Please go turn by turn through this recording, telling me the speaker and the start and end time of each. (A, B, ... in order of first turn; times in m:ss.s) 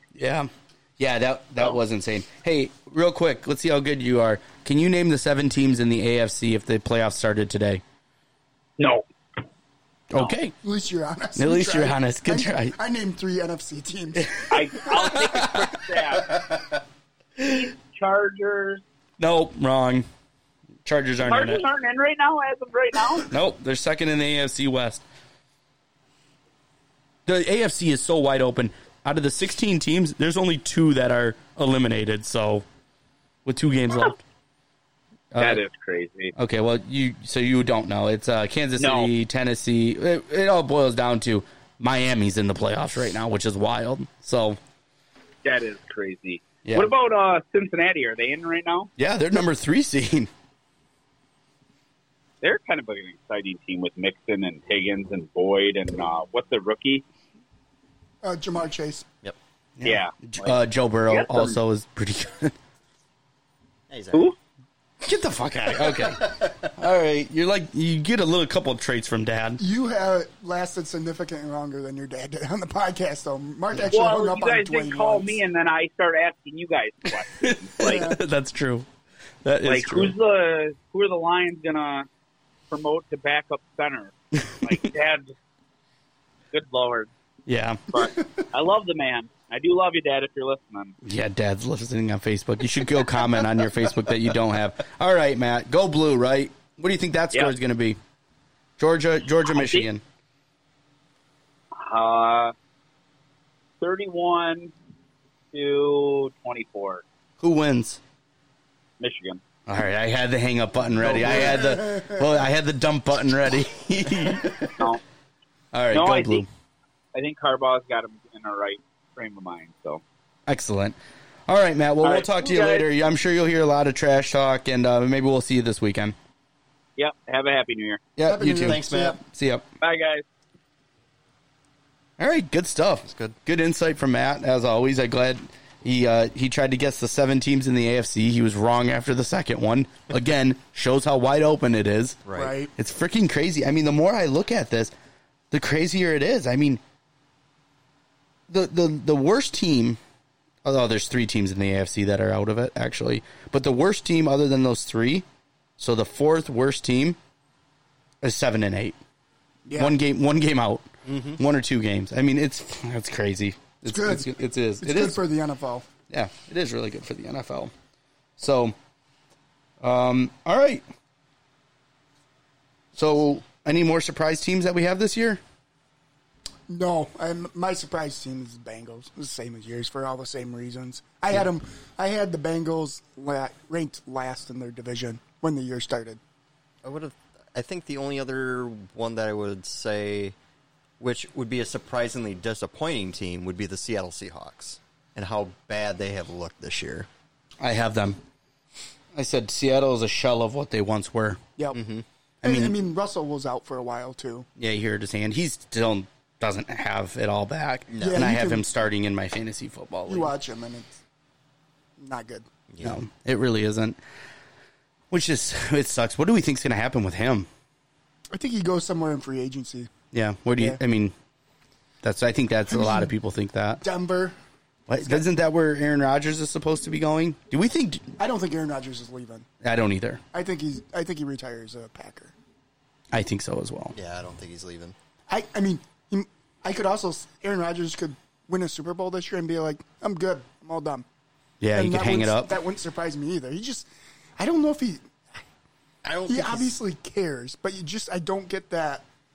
0:00.1-0:07.8 A
0:08.8-0:09.0 B
0:10.1-0:10.5 A
0:10.6-0:14.9 C
0:11.4-0:12.7 A
0:14.2-0:15.8 A
0:14.5-0:16.6 B
0:17.4-0:18.8 B
0:19.2-0:20.1 A
0:20.8-0:21.6 A
0:21.2-0:23.3 B
0:23.2-0:25.0 A
0:27.2-0:32.6 A
0:33.4-0:34.2 A
0:35.3-0:35.6 A
0:35.4-0:36.3 B
0:36.4-0:44.6 A
0:38.8-0:39.1 B
0:45.4-0:48.9 B
0:46.6-0:46.9 A
0:49.0-0:50.3 A
0:52.4-0:57.0 B
0:58.2-0:59.1 C
0:59.8-1:02.5 A
0:59.8-1:00.6 B
1:01.1-1:01.5 B
1:03.9-1:04.3 D
1:05.0-1:09.6 A
1:05.8-1:06.7 D
1:09.6-1:15.4 C
1:13.9-1:18.0 B
1:17.4-1:18.9 A
1:17.8-1:18.2 C
1:19.4-1:20.1 A
1:19.6-1:22.1 B
1:22.7-1:25.4 B
1:26.5-1:27.1 B
1:27.5-1:27.9 A
1:27.9-1:30.9 B
1:31.0-1:38.0 A
1:38.8-1:40.0 A
1:39.5-1:39.8 B
1:41.7-1:42.5 B
1:43.8-1:44.7 B
1:45.5-1:47.0 B
1:47.4-1:48.0 A
1:49.0-1:49.4 B
1:49.7-1:54.8 A
1:51.0-1:52.3 C
1:54.8-1:55.0 B
1:55.7-1:56.5 A
1:55.9-1:56.4 B
1:57.1-2:00.0 B
2:00.5-2:06.2 A
2:02.0-2:02.8 B
2:07.0-2:08.0 B
2:08.2-2:09.6 A
2:08.2-2:09.2 C
2:08.6-2:09.2 D
2:09.8-2:10.2 B
2:12.2-2:22.2 A
2:13.0-2:13.4 D
2:22.2-2:22.5 D
2:22.3-2:22.7 C
2:22.8-2:24.9 A
2:25.5-2:26.8 A
2:28.5-2:30.0 A
2:30.6-2:35.2 A
2:35.8-2:37.2 A
2:38.2-2:39.0 A
2:39.7-2:39.9 C
2:39.7-2:40.9 A
2:41.0-2:41.4 D
2:41.4-2:45.2 A
2:43.9-2:45.8 C
2:46.1-2:47.7 A
2:48.4-2:48.7 A
2:49.8-2:50.8 A
2:52.9-2:55.4 A
2:56.7-3:06.2 C
3:06.8-3:10.4 D
3:11.0-3:17.1 D
3:17.6-3:18.2 A
3:19.1-3:21.4 A
3:21.7-3:22.0 D
3:22.4-3:22.8 A
3:22.4-3:24.5 C
3:24.6-3:30.3 A
3:27.9-3:28.3 D
3:28.0-3:28.6 C
3:30.1-3:31.0 C
3:32.0-3:32.5 C
3:32.7-3:33.0 D
3:32.8-3:34.0 A
3:35.1-3:37.5 A
3:38.3-3:39.9 C
3:40.1-3:41.1 A
3:42.0-3:43.8 A
3:42.7-3:43.1 C
3:43.8-3:44.3 C
3:44.9-3:48.1 A
3:48.2-3:49.5 C
3:49.6-3:50.2 A
3:50.3-3:52.3 C
3:53.1-3:53.9 A
3:53.9-3:54.9 D
3:55.3-4:01.0 C
4:01.6-4:02.6 A
4:01.7-4:05.2 C
4:06.0-4:06.7 D
4:06.3-4:09.0 C